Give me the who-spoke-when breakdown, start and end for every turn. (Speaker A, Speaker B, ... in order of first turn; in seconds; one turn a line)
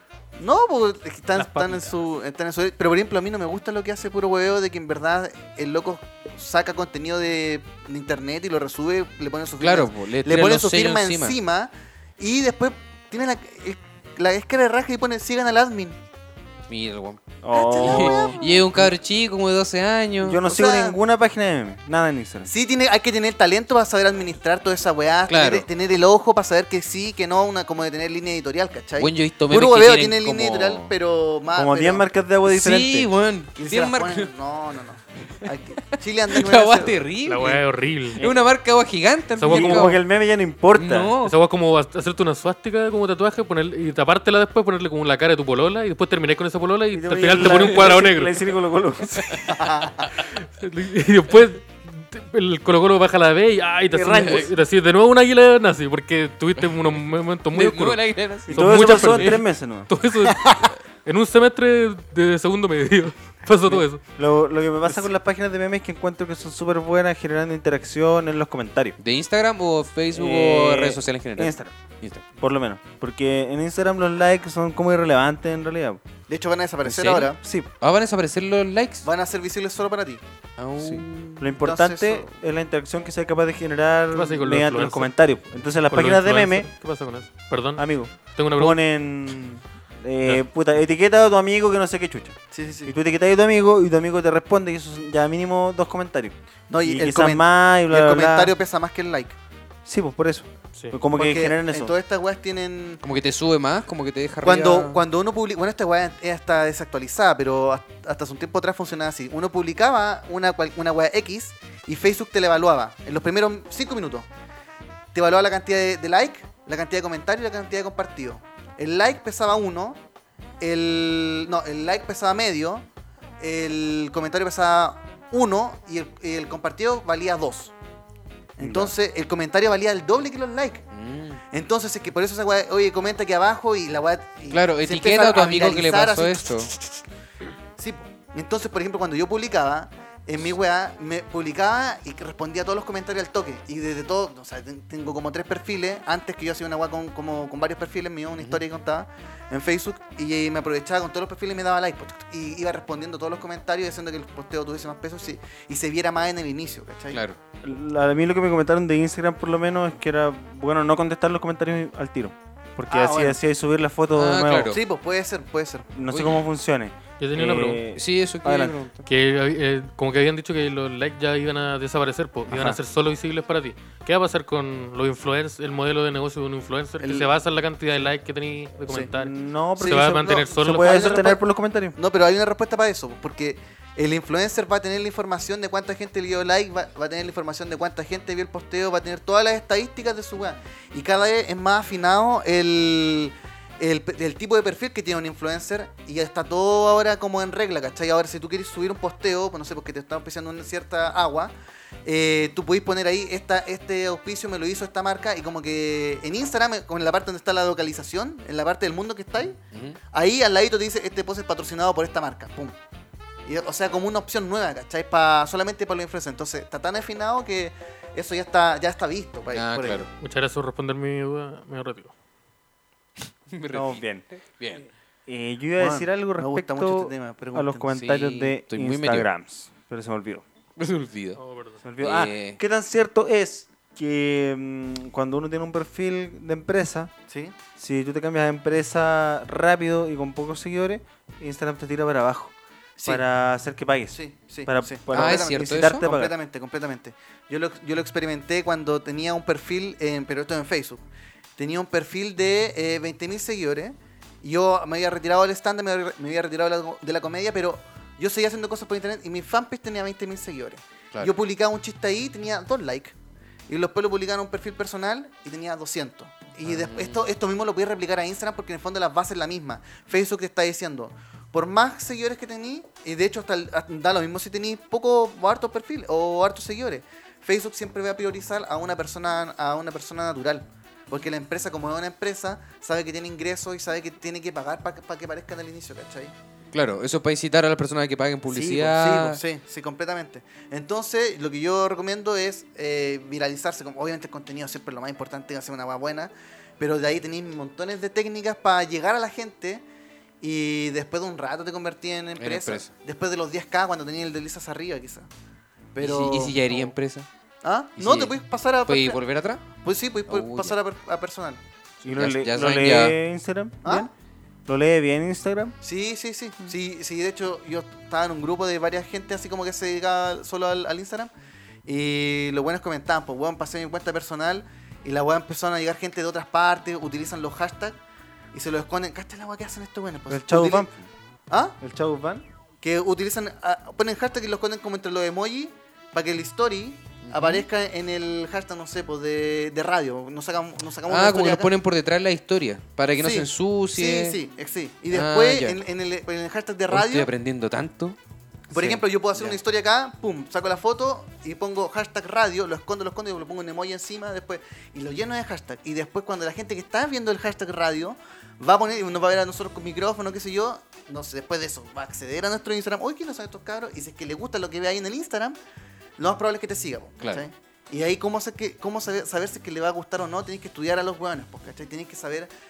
Speaker A: 0.4-16.0
Speaker B: 1.3-1.9
Speaker C: 9.6-11.4
Speaker C: 16.7-20.4
Speaker D: 17.4-18.9
Speaker A: 17.5-18.7
Speaker D: 20.2-22.5
Speaker A: 20.4-21.0
Speaker A: 22.5-32.0
Speaker C: 25.3-25.7
Speaker C: 29.0-30.9
Speaker D: 31.5-33.1
Speaker C: 32.5-34.3
Speaker A: 33.5-37.0
Speaker C: 36.3-37.6
Speaker B: 37.2-38.2
Speaker D: 38.2-38.4
Speaker C: 38.2-40.0
Speaker B: 39.4-39.9
Speaker D: 39.4-41.1
Speaker C: 40.7-41.3
Speaker B: 41.2-48.4
Speaker D: 46.9-49.2
Speaker C: 47.3-47.7
Speaker B: 49.1-49.4
Speaker C: 49.2-49.5
Speaker A: 49.5-50.1
Speaker B: 50.2-64.0
Speaker D: 53.9-54.5
Speaker C: 57.5-59.3
Speaker D: 58.5-59.9
Speaker A: 60.2-60.7
Speaker D: 63.7-69.0
Speaker C: 69.0-72.2
Speaker D: 70.1-71.8
Speaker D: 72.4-76.0
Speaker A: 76.3-77.4
Speaker C: 76.8-77.3
Speaker D: 77.4-77.7
Speaker C: 77.8-79.0
Speaker A: 79.0-80.2
Speaker C: 80.6-81.5
Speaker D: 80.8-86.7
Speaker A: 81.6-82.3
Speaker B: 84.1-85.1
Speaker B: 85.9-87.8
Speaker D: 87.8-98.5
Speaker B: 88.3-88.8
Speaker A: 92.5-92.9
Speaker A: 96.7-99.3
Speaker D: 99.8-102.0
Speaker A: 101.1-103.0
Speaker C: 103.0-105.0
Speaker A: 104.4-114.2
Speaker A: 115.1-120.0
Speaker A: 120.6-122.8
Speaker A: 123.4-127.7
Speaker A: 128.6-130.8
Speaker D: 128.6-128.9
Speaker C: 130.9-131.4
Speaker A: 131.5-137.0
Speaker C: 134.5-136.7
Speaker A: 137.8-157.2
Speaker C: 157.1-157.4
Speaker D: 157.6-164.7
Speaker A: 162.9-163.4
Speaker C: 164.2-164.8
Speaker A: 164.7-165.9
Speaker D: 165.9-168.8
Speaker C: 166.1-166.4
Speaker B: 167.2-167.8
Speaker C: 167.9-169.1
Speaker B: 169.1-181.3
Speaker D: 172.5-172.8
Speaker A: 177.0-177.3
Speaker D: 179.1-181.9
Speaker A: 179.8-181.4
Speaker A: 181.9-201.5
Speaker A: 202.0-209.6
Speaker C: 209.7-210.0
Speaker A: 210.1-212.8
Speaker A: 213.4-220.1
Speaker C: 219.5-220.1
Speaker B: 220.2-222.1
Speaker C: 223.5-224.8
Speaker D: 223.7-224.2
Speaker D: 225.2-230.4
Speaker A: 225.8-228.0
Speaker C: 227.9-229.3
Speaker C: 230.8-231.4
Speaker B: 231.4-231.8
Speaker D: 231.8-237.1
Speaker C: 232.0-232.6
Speaker A: 237.3-237.6
Speaker D: 237.8-242.5
Speaker A: 243.0-243.2
Speaker D: 243.0-246.3
Speaker A: 244.1-251.0
Speaker C: 245.1-246.0
Speaker A: 251.6-263.1
Speaker A: 263.7-286.3
Speaker C: 266.6-267.3
Speaker C: 286.7-289.4
Speaker A: 288.5-299.8
Speaker A: 300.4-305.3
Speaker C: 302.4-302.9
Speaker A: 305.9-306.9
Speaker C: 306.0-307.3
Speaker A: 307.6-309.2
Speaker C: 308.0-308.3
Speaker C: 308.9-309.6
Speaker A: 309.8-311.6
Speaker C: 310.3-310.7
Speaker C: 312.0-313.1
Speaker D: 312.0-314.1
Speaker A: 313.8-314.1
Speaker D: 314.7-315.7
Speaker A: 315.8-321.3
Speaker A: 321.9-328.0
Speaker A: 328.5-330.9
Speaker D: 330.3-330.9
Speaker A: 331.5-331.8
Speaker D: 331.8-332.4
Speaker A: 332.8-341.7
Speaker C: 337.2-337.6
Speaker C: 341.1-344.4
Speaker A: 343.2-347.3
Speaker C: 345.1-345.8
Speaker C: 346.9-348.2
Speaker A: 348.7-365.6
Speaker D: 348.7-349.0
Speaker A: 366.2-372.5
Speaker C: 367.2-367.5